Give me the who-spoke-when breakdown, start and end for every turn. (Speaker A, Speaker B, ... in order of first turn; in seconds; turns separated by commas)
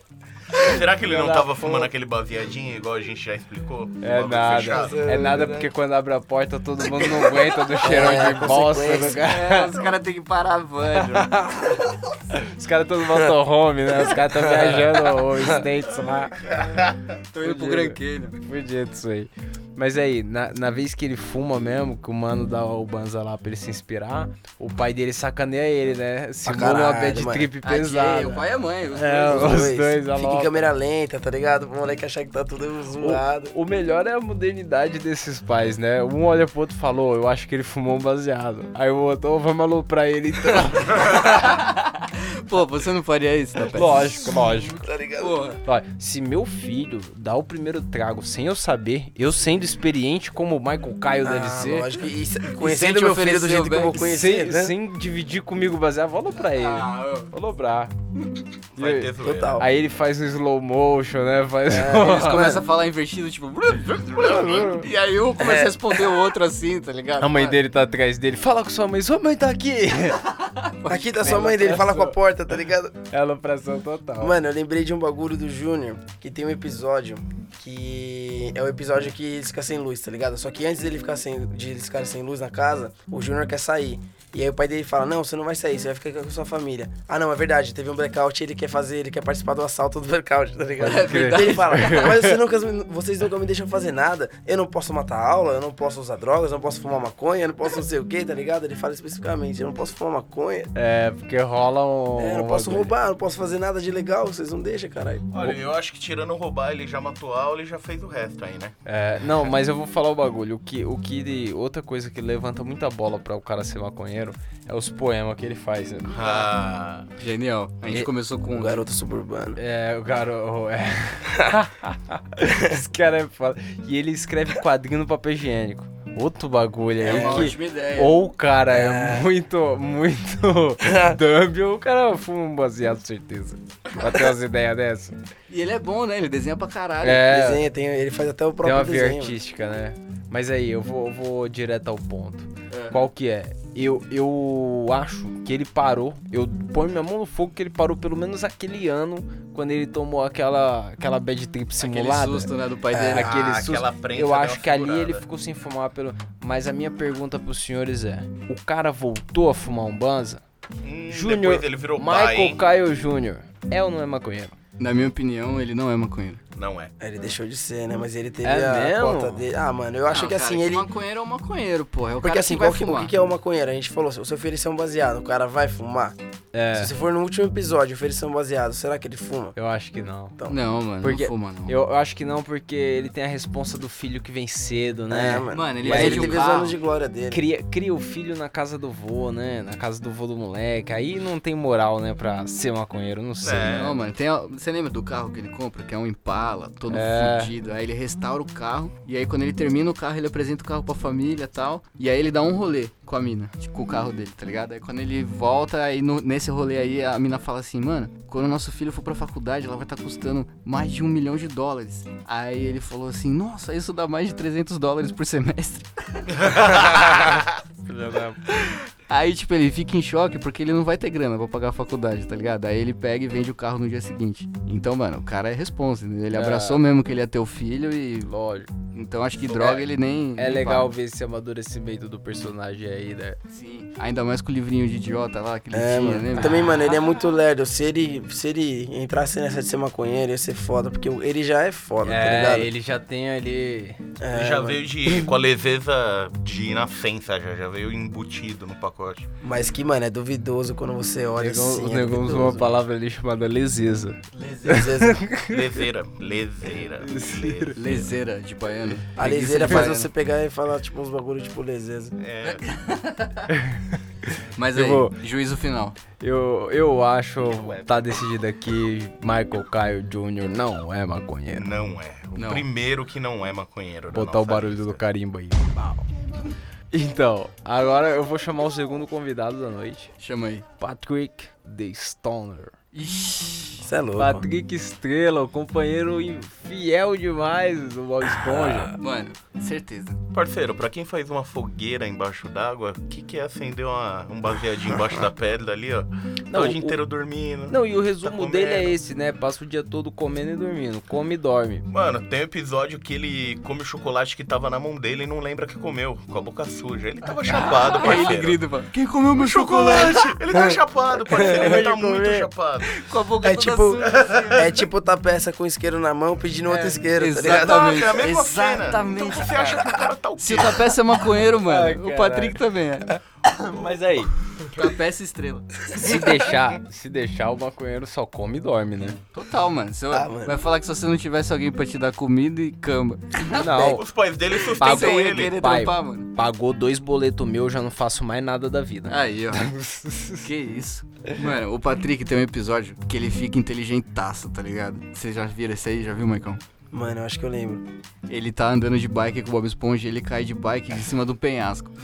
Speaker A: 0.5-5.0, Speaker B: 1.0-1.9, Speaker B: 4.0-9.7, Speaker C: 4.7-5.7, Speaker C: 7.0-9.2, Speaker D: 9.0-11.4, Speaker B: 11.0-16.4, Speaker C: 14.1-15.7, Speaker A: 16.6-17.0, Speaker D: 17.3-18.4, Speaker B: 17.4-30.5, Speaker C: 26.4-27.5, Speaker D: 27.6-29.7, Speaker C: 29.2-33.5, Speaker B: 33.0-41.3, Speaker D: 41.0-44.3, Speaker B: 43.7-44.9, Speaker C: 44.3-45.4, Speaker D: 45.2-45.6, Speaker B: 45.6-51.9, Speaker C: 51.2-54.8, Speaker D: 52.5-54.0, Speaker B: 54.0-58.0, Speaker D: 56.4-57.3, Speaker A: 58.8-59.6, Speaker B: 58.8-62.5, Speaker C: 59.2-59.7, Speaker C: 61.7-62.6, Speaker D: 61.9-67.6, Speaker B: 64.2-64.9, Speaker C: 65.4-65.8, Speaker B: 67.2-70.3, Speaker D: 70.6-71.7, Speaker C: 70.9-73.1, Speaker B: 71.3-72.2, Speaker B: 73.1-74.3, Speaker C: 74.2-100.7, Speaker D: 90.8-92.1, Speaker B: 90.8-92.4, Speaker B: 100.8-102.9, Speaker C: 102.2-105.3, Speaker A: 105.3-108.8, Speaker B: 108.8-116.5, Speaker A: 116.1-117.1, Speaker D: 117.2-118.8, Speaker C: 118.5-119.6, Speaker B: 119.6-135.2, Speaker D: 127.0-128.2, Speaker C: 127.1-127.5, Speaker C: 128.7-129.3, Speaker C: 130.8-131.2, Speaker D: 135.5-137.3, Speaker B: 137.0-137.6, Speaker C: 137.3-139.4, Speaker B: 138.6-152.5, Speaker D: 142.7-143.0, Speaker D: 151.8-153.3, Speaker C: 152.9-153.3, Speaker B: 153.1-160.4, Speaker A: 153.2-155.2, Speaker A: 160.8-162.6, Speaker B: 161.1-164.6, Speaker D: 164.8-166.4, Speaker A: 166.5-166.9, Speaker C: 167.0-170.9, Speaker B: 168.4-169.5, Speaker D: 170.1-173.1, Speaker C: 172.2-176.2, Speaker B: 176.5-176.9, Speaker C: 176.7-179.6, Speaker B: 179.6-180.4, Speaker D: 180.5-181.7, Speaker B: 181.0-186.4, Speaker C: 185.1-187.4, Speaker D: 185.5-186.8, Speaker B: 187.3-193.8, Speaker A: 193.4-194.0, Speaker D: 193.6-217.0, Speaker B: 196.9-197.5, Speaker B: 216.8-218.4, Speaker D: 218.5-228.3, Speaker B: 226.3-226.8, Speaker B: 228.3-228.7, Speaker D: 228.9-230.8, Speaker A: 229.5-229.9, Speaker B: 230.4-233.4, Speaker D: 233.5-236.8, Speaker C: 235.7-242.7, Speaker B: 236.4-236.9, Speaker B: 242.0-244.0, Speaker C: 244.2-245.3, Speaker A: 244.3-249.3, Speaker C: 249.4-252.7, Speaker B: 251.4-255.8, Speaker D: 254.3-255.0, Speaker C: 254.7-255.2, Speaker A: 255.4-258.1, Speaker B: 257.0-258.0, Speaker D: 257.8-260.1, Speaker C: 259.2-262.1, Speaker A: 262.2-262.6, Speaker D: 262.4-263.5, Speaker B: 263.5-263.8, Speaker D: 264.6-266.0, Speaker B: 264.7-265.2, Speaker B: 266.2-271.7, Speaker A: 267.5-268.2, Speaker A: 271.5-275.0, Speaker D: 272.4-272.7, Speaker B: 274.1-276.1, Speaker B: 276.9-280.1, Speaker D: 280.2-280.6, Speaker B: 280.8-282.7, Speaker D: 282.9-283.9, Speaker C: 283.8-284.5, Speaker B: 284.2-289.0, Speaker C: 288.5-288.9, Speaker D: 289.0-290.2, Speaker A: 290.3-299.0, Speaker B: 296.5-297.0, Speaker B: 297.7-301.9, Speaker A: 301.9-308.6, Speaker D: 307.4-310.4, Speaker A: 309.3-313.0, Speaker C: 310.5-311.9, Speaker B: 311.4-312.5, Speaker D: 312.9-314.7, Speaker C: 313.4-318.1, Speaker A: 314.1-314.6, Speaker B: 316.7-317.0, Speaker D: 317.1-323.1, Speaker A: 317.4-320.9, Speaker B: 321.6-322.6, Speaker B: 323.6-324.3, Speaker D: 324.7-326.4, Speaker B: 325.9-329.2, Speaker D: 329.3-333.9, Speaker C: 330.1-330.6, Speaker B: 333.6-334.0, Speaker A: 333.7-335.6, Speaker D: 334.5-336.3, Speaker B: 334.8-340.4, Speaker D: 339.1-339.8, Speaker D: 340.3-346.6, Speaker C: 346.9-347.8, Speaker D: 348.3-351.9